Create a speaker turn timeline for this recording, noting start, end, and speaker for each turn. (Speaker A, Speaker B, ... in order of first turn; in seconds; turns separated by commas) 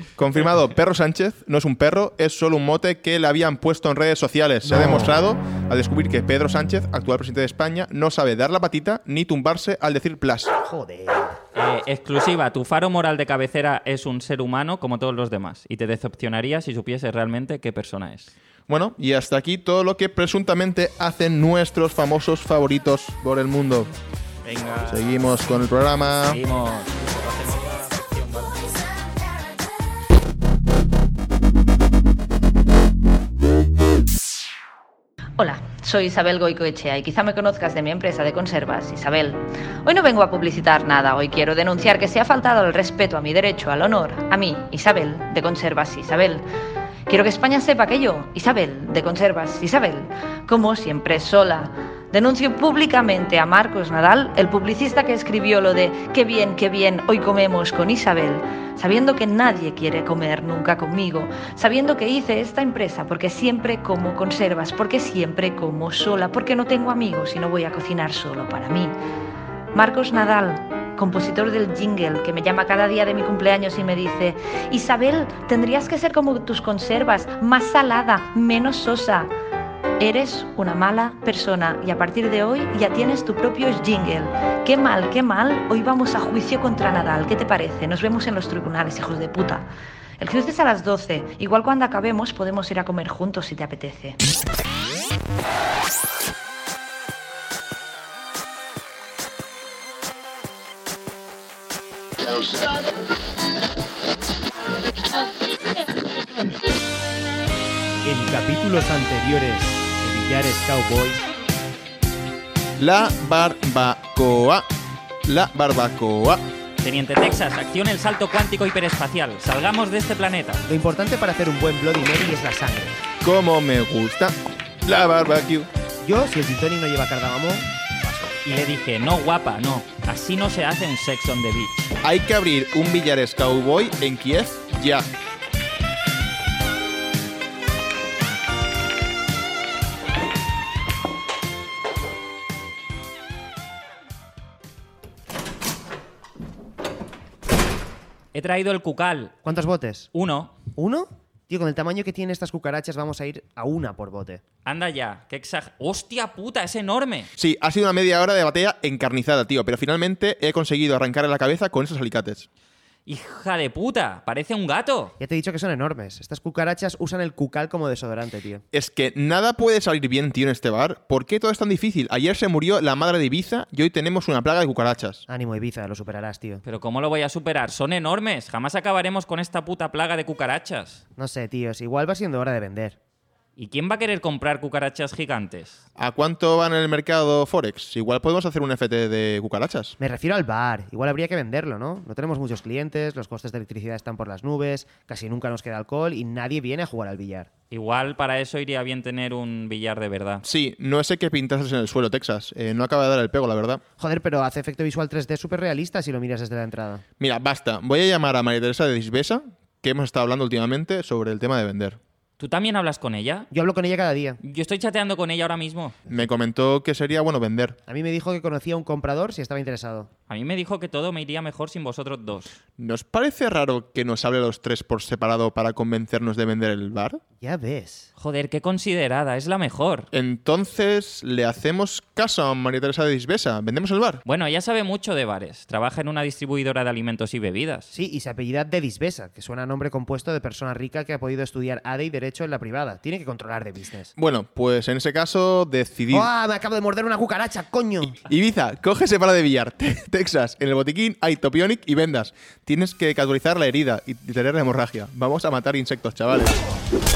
Speaker A: 0.1-10.5, Speaker B: 4.6-5.1, Speaker B: 10.6-11.4, Speaker C: 11.5-18.3, Speaker A: 18.7-23.9, Speaker C: 24.4-25.4, Speaker A: 24.9-26.4, Speaker C: 26.2-28.6, Speaker D: 35.4-46.4, Speaker D: 47.1-69.0, Speaker D: 69.7-79.3, Speaker D: 80.0-89.7, Speaker D: 90.2-94.2, Speaker B: 108.0-111.3, Speaker A: 112.8-114.7, Speaker A: 115.2-116.4, Speaker C: 116.8-120.6, Speaker B: 120.7-123.0, Speaker A: 123.2-125.7, Speaker B: 126.0-128.3, Speaker C: 128.4-131.9, Speaker A: 132.0-135.1, Speaker C: 148.3-149.4, Speaker B: 149.4-150.1, Speaker C: 150.1-150.5, Speaker B: 150.8-154.4, Speaker C: 154.6-157.3, Speaker A: 157.3-162.5, Speaker C: 163.1-165.1, Speaker B: 165.2-168.6, Speaker A: 168.7-175.2, Speaker B: 175.3-176.6, Speaker C: 176.6-181.0, Speaker B: 181.2-183.0, Speaker C: 183.6-185.8, Speaker A: 186.0-190.0, Speaker B: 190.0-197.5, Speaker C: 197.7-200.4, Speaker A: 200.4-203.8, Speaker B: 204.0-207.0, Speaker A: 207.2-212.0, Speaker C: 212.4-213.5, Speaker B: 213.5-214.4, Speaker C: 214.4-216.0, Speaker A: 216.1-217.8, Speaker B: 217.9-220.1, Speaker C: 220.3-222.5, Speaker A: 222.8-227.2, Speaker B: 227.4-228.1, Speaker C: 228.2-230.1, Speaker A: 230.1-234.2, Speaker C: 234.2-237.9, Speaker B: 237.9-244.1, Speaker A: 244.2-246.3, Speaker B: 246.1-248.2, Speaker A: 248.2-256.6